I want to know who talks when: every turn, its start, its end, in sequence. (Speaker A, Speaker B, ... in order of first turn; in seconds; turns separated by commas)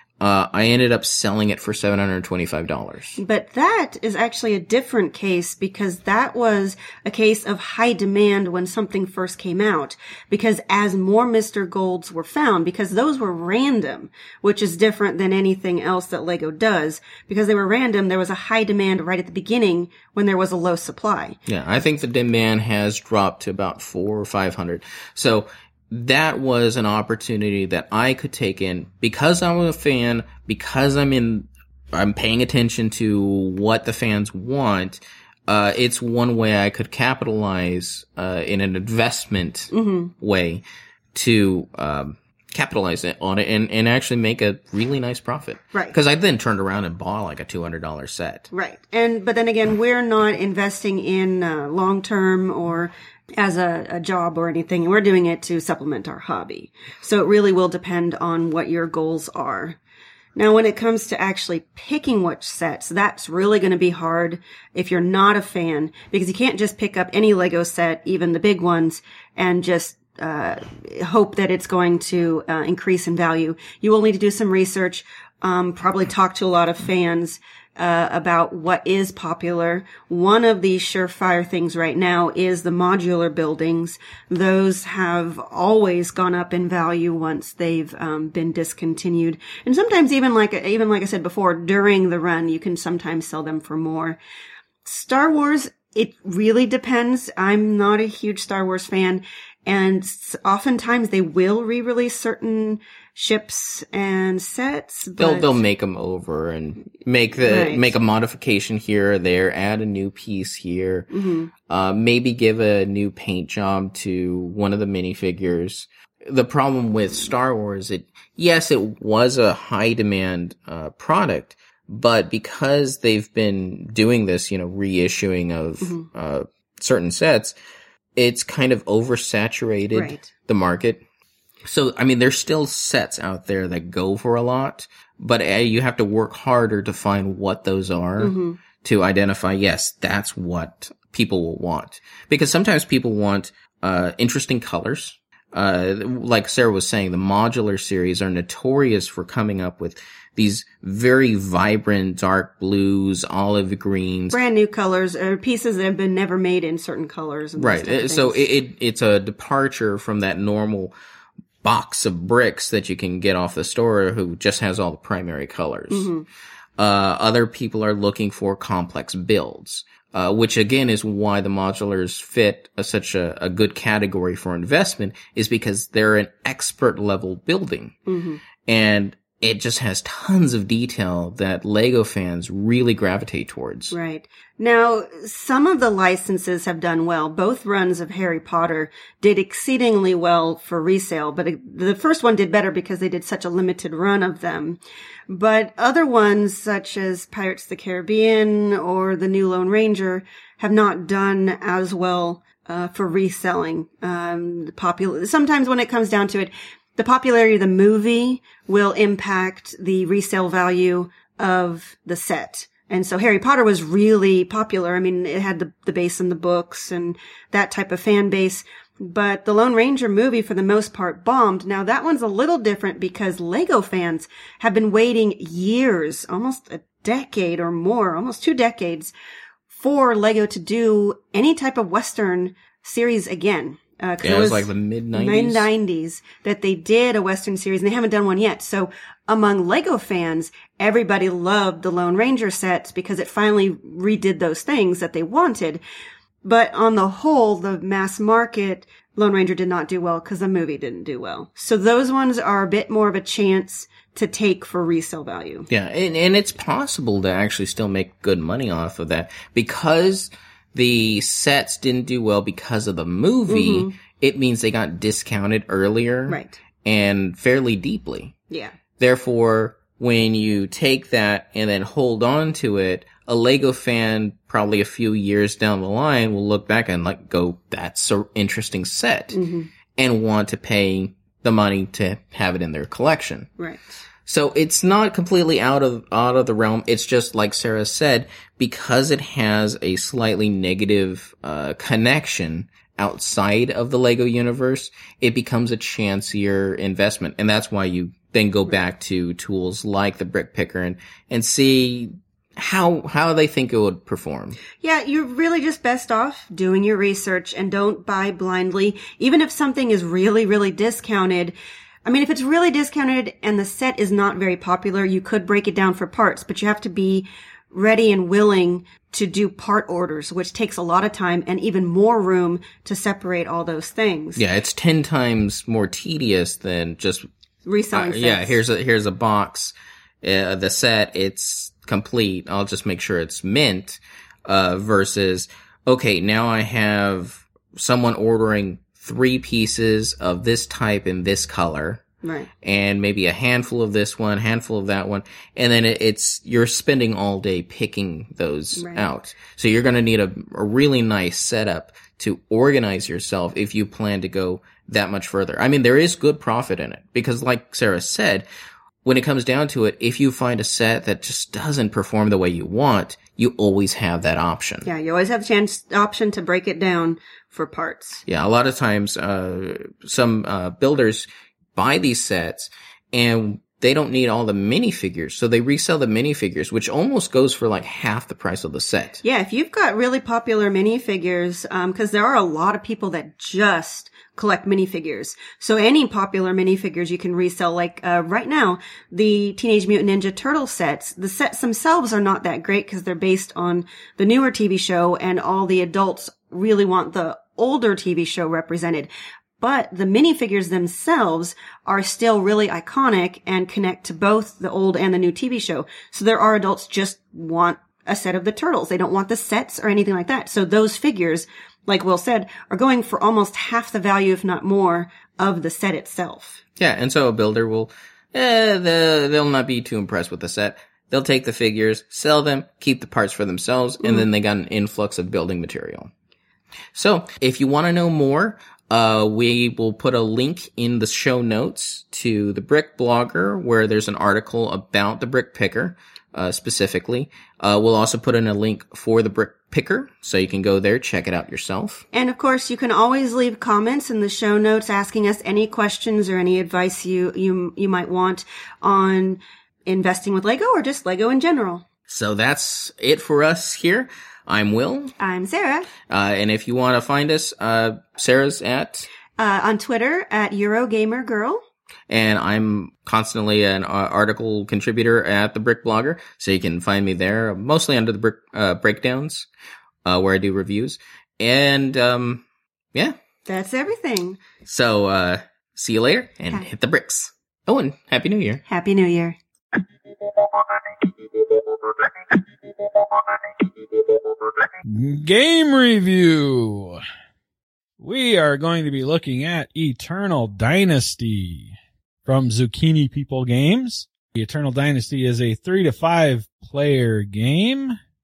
Speaker A: 0.2-3.2, Speaker B: 3.2-21.4, Speaker A: 21.5-48.5, Speaker B: 39.7-40.1, Speaker B: 48.5-59.8, Speaker B: 60.4-94.2, Speaker B: 94.8-105.6, Speaker A: 105.2-111.1, Speaker B: 107.4-107.9, Speaker B: 111.1-111.5, Speaker A: 111.7-127.5, Speaker B: 125.8-126.0, Speaker A: 128.2-131.0, Speaker B: 129.9-130.3, Speaker A: 131.7-154.4, Speaker B: 138.2-138.6, Speaker B: 154.3-158.4, Speaker A: 157.5-160.9, Speaker A: 161.6-166.1, Speaker B: 165.9-166.2, Speaker A: 166.8-178.0, Speaker B: 178.1-178.4, Speaker A: 178.7-183.9, Speaker B: 183.9-229.1, Speaker B: 229.7-245.8, Speaker A: 234.2-235.7, Speaker B: 246.4-255.7, Speaker A: 255.7-268.4, Speaker B: 263.5-263.9, Speaker B: 266.3-266.6, Speaker A: 269.0-279.4, Speaker B: 279.3-279.7, Speaker A: 280.0-283.5, Speaker B: 283.6-283.9, Speaker A: 284.3-304.6, Speaker B: 304.8-324.4, Speaker A: 324.4-327.3, Speaker B: 327.6-328.6, Speaker A: 327.9-342.0, Speaker B: 342.2-342.5, Speaker A: 342.6-358.5, Speaker B: 348.8-349.1, Speaker A: 359.0-364.9, Speaker B: 364.8-368.2, Speaker A: 368.3-379.2, Speaker B: 379.2-399.1, Speaker B: 399.6-416.6, Speaker A: 416.8-426.1, Speaker A: 426.9-442.0, Speaker B: 442.1-451.8, Speaker A: 452.1-455.1, Speaker B: 455.2-455.9, Speaker A: 456.1-459.1, Speaker B: 459.4-461.6, Speaker A: 462.1-469.5, Speaker A: 470.0-473.2, Speaker B: 473.4-474.4, Speaker A: 474.6-478.6, Speaker B: 478.7-479.4, Speaker C: 480.3-480.7, Speaker C: 481.5-482.0, Speaker C: 483.0-483.3, Speaker C: 484.8-487.0, Speaker C: 488.0-491.7, Speaker C: 492.2-498.0